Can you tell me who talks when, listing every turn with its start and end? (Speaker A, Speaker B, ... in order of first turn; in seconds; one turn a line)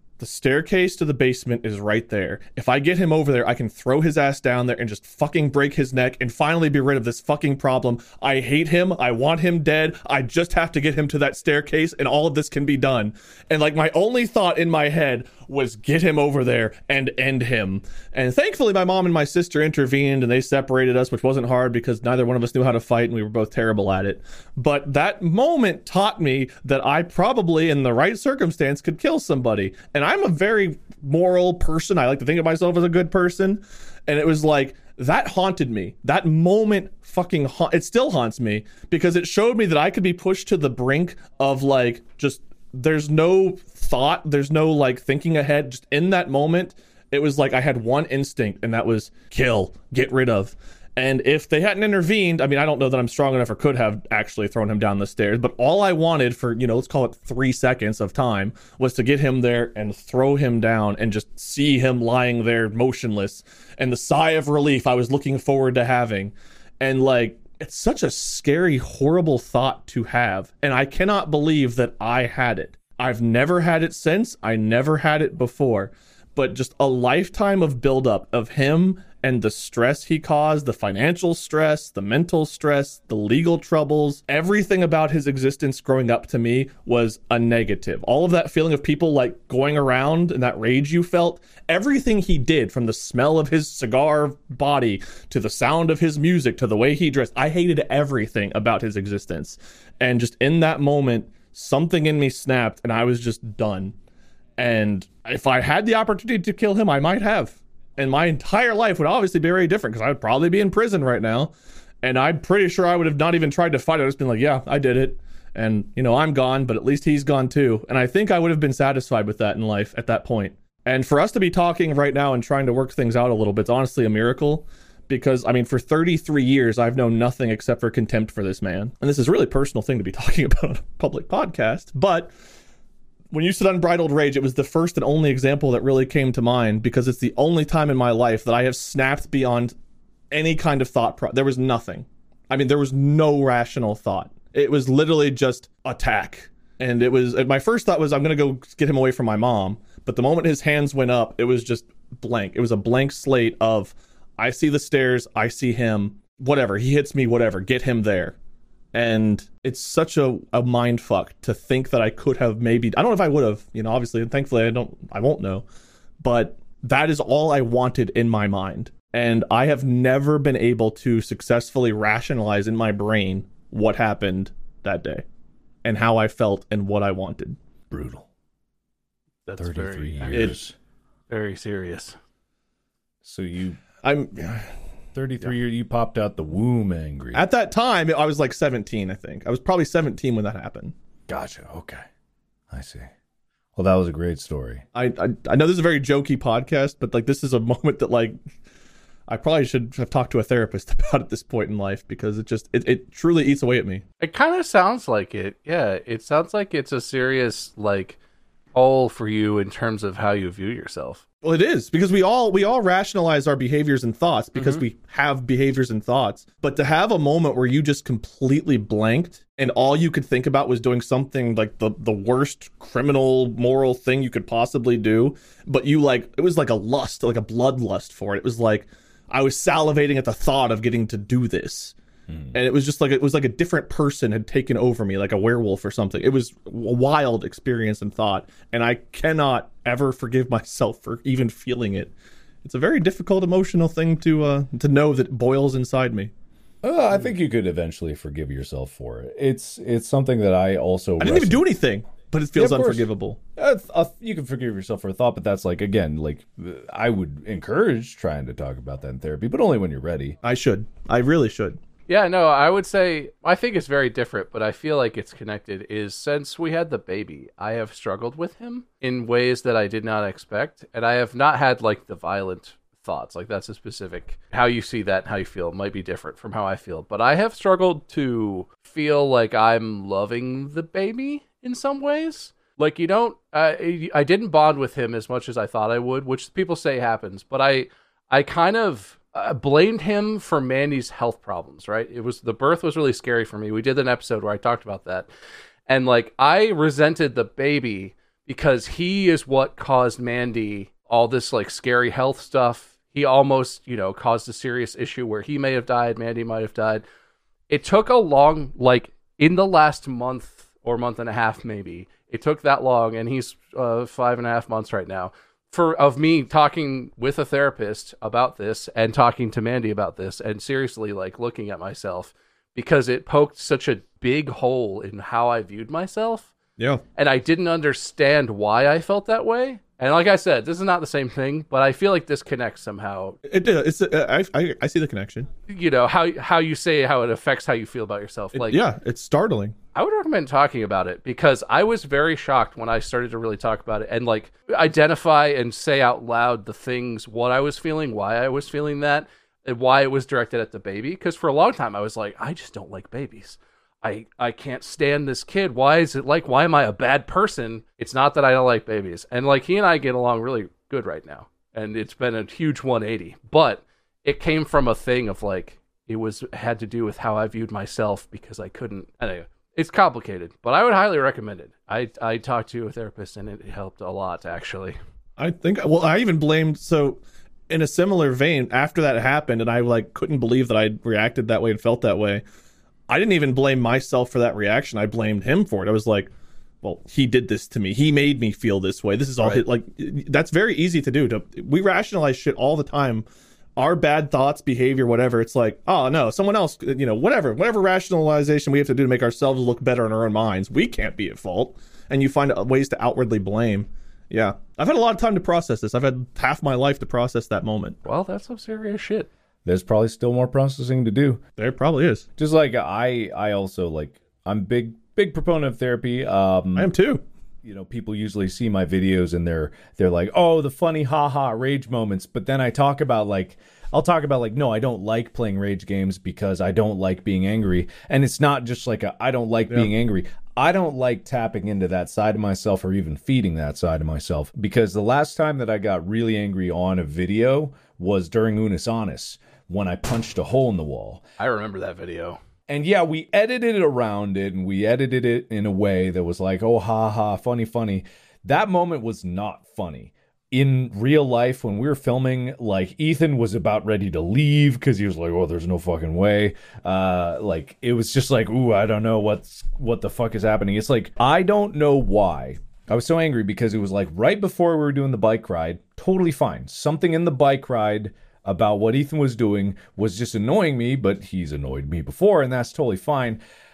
Speaker A: 0.2-103.9
Speaker A: 104.6-111.5
Speaker A: 112.0-132.3
Speaker A: 133.3-139.7
Speaker A: 140.3-158.3
Speaker A: 158.9-165.6
Speaker A: 166.2-175.2
Speaker A: 175.8-177.6
Speaker B: 177.9-178.2
Speaker C: 179.4-180.6
Speaker B: 179.6-180.7
Speaker A: 180.3-180.6
Speaker C: 181.3-182.2
Speaker B: 183.2-183.8
Speaker A: 184.0-184.7
Speaker B: 185.1-187.5
Speaker A: 187.3-190.9
Speaker B: 191.3-192.0
Speaker B: 192.7-193.1
Speaker B: 193.8-194.8
Speaker A: 194.9-198.3
Speaker A: 199.3-204.0
Speaker C: 204.2-208.2
Speaker C: 208.7-211.2
Speaker A: 211.4-231.9
Speaker C: 214.5-214.8
Speaker A: 232.5-242.1
Speaker A: 242.6-246.3
Speaker B: 246.8-251.6
Speaker A: 251.2-253.4
Speaker B: 252.5-260.4
Speaker A: 260.4-261.8
Speaker C: 262.1-295.3
Speaker C: 295.9-307.0
Speaker C: 307.7-326.5
Speaker A: 326.8-327.0
Speaker C: 327.1-333.4
Speaker A: 333.4-335.5
Speaker C: 335.7-338.8
Speaker A: 338.5-339.7
Speaker C: 339.9-375.0
Speaker A: 375.4-382.4
Speaker A: 383.1-386.3
Speaker A: 386.8-393.2
Speaker A: 393.8-408.0
Speaker C: 408.0-409.3
Speaker B: 409.6-411.4
Speaker A: 411.6-412.3
Speaker B: 412.4-416.9
Speaker A: 416.8-417.2
Speaker B: 417.6-441.2
Speaker C: 441.4-442.4
Speaker B: 442.7-473.4